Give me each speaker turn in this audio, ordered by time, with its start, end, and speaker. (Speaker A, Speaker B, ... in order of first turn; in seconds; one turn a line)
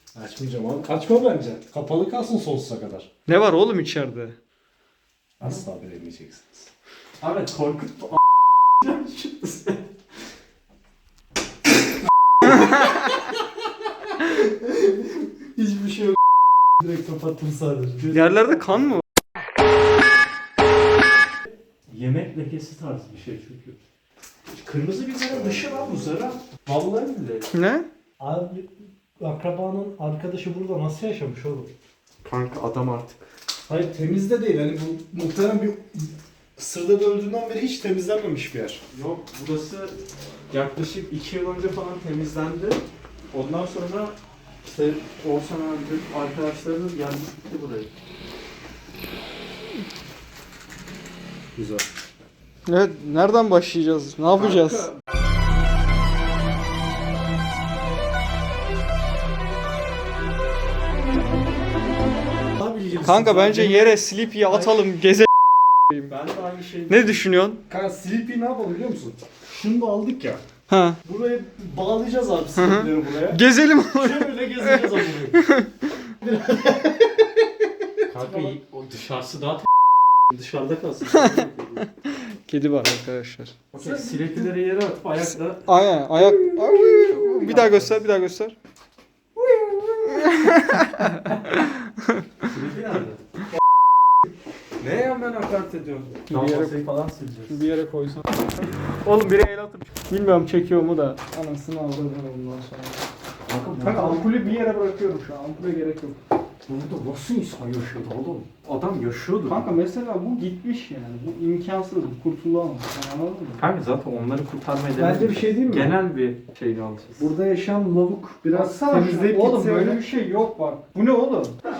Speaker A: 0.1-3.1
Speaker B: 3.3-4.3
Speaker A: 5.4-6.7
Speaker C: 7.2-8.2
Speaker C: 8.8-9.8
Speaker A: 16.8-18.2
Speaker B: 18.1-19.0
Speaker C: 21.9-23.8
Speaker C: 24.5-27.5
Speaker A: 25.2-26.2
Speaker B: 27.5-27.9
Speaker A: 28.2-31.7
Speaker C: 32.2-33.2
Speaker A: 33.7-38.8
Speaker C: 38.9-39.9
Speaker C: 40.5-47.9
Speaker A: 51.5-51.8
Speaker B: 52.6-54.9
Speaker C: 54.4-54.9
Speaker A: 62.5-64.0
Speaker B: 63.0-65.3
Speaker C: 66.1-67.2
Speaker B: 66.9-67.6
Speaker A: 67.7-70.4
Speaker B: 70.7-71.0
Speaker A: 71.0-73.4
Speaker B: 72.6-75.7
Speaker A: 73.9-75.4
Speaker A: 76.2-77.4
Speaker C: 78.1-79.7
Speaker C: 80.3-81.8
Speaker B: 81.1-81.4
Speaker B: 82.0-83.5
Speaker C: 83.7-85.7
Speaker A: 83.8-84.5
Speaker B: 85.6-88.5
Speaker A: 86.2-87.3
Speaker C: 87.4-87.9
Speaker B: 90.1-91.8
Speaker C: 92.4-93.2
Speaker C: 94.8-97.6
Speaker B: 96.3-96.8
Speaker B: 97.5-103.0
Speaker A: 102.0-102.5
Speaker A: 103.5-104.2
Speaker B: 103.8-106.2
Speaker A: 106.7-108.5
Speaker C: 108.6-109.7
Speaker B: 109.5-113.6
Speaker C: 113.6-117.3
Speaker A: 115.0-115.9
Speaker A: 117.2-120.0
Speaker B: 118.5-121.6